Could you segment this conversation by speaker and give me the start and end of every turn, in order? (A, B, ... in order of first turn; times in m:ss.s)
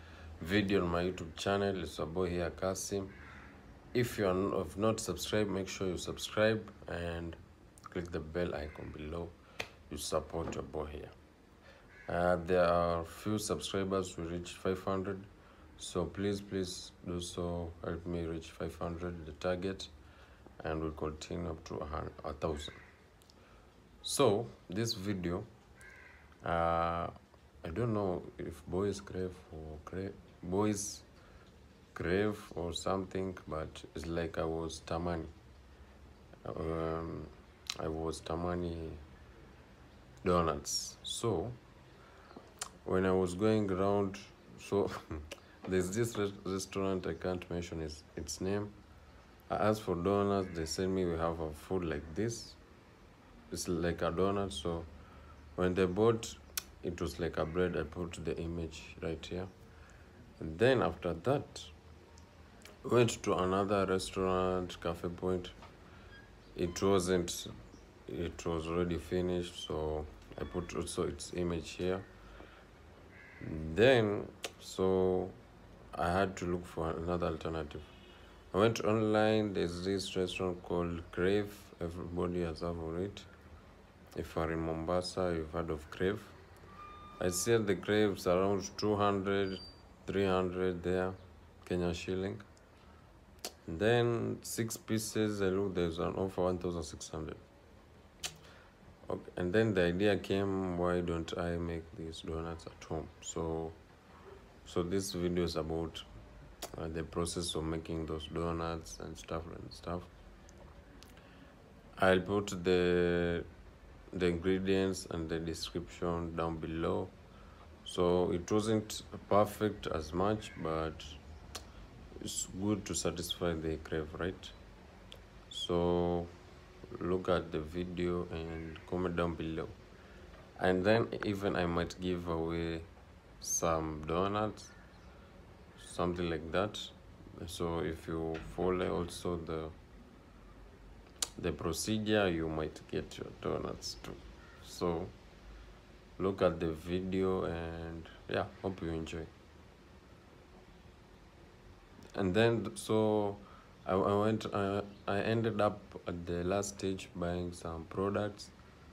0:00.4-0:03.1 A
0:03.9-0:09.4 A
0:09.9-0:11.1 A
0:12.1-0:19.9 A
0:20.6-0:22.8 A
0:24.0-0:25.5 A
0:26.4-0:31.1 A
0:31.9-0:35.3 A
0:36.4-0:39.0 A
0:40.2-0:41.6 A
0:42.8-0:48.8 A
0:49.5-0:52.6 A
0:53.5-0:54.9 A
0:55.6-0:59.5 A
1:00.4-1:01.7 A
1:02.8-1:05.6 A
1:06.5-1:07.5 A
1:08.0-1:12.0 A
1:13.4-1:15.4 A
1:15.9-1:17.9 A
1:18.5-1:23.3 A
1:24.1-1:26.4 A
1:27.2-1:32.4 A
1:33.6-1:37.4 A
1:39.0-1:43.8 A
1:44.6-1:46.0 A
1:46.7-1:50.1 A
1:52.0-1:53.5 A
1:54.1-1:57.1 A
1:57.8-2:01.2 A
2:02.2-2:04.6 A
2:05.5-2:06.3 A
2:06.9-2:09.8 A
2:10.6-2:12.9 A
2:13.4-2:14.8 A
2:15.8-2:19.8 A
2:21.4-2:25.1 A
2:26.2-2:29.3 A
2:32.1-2:38.5 A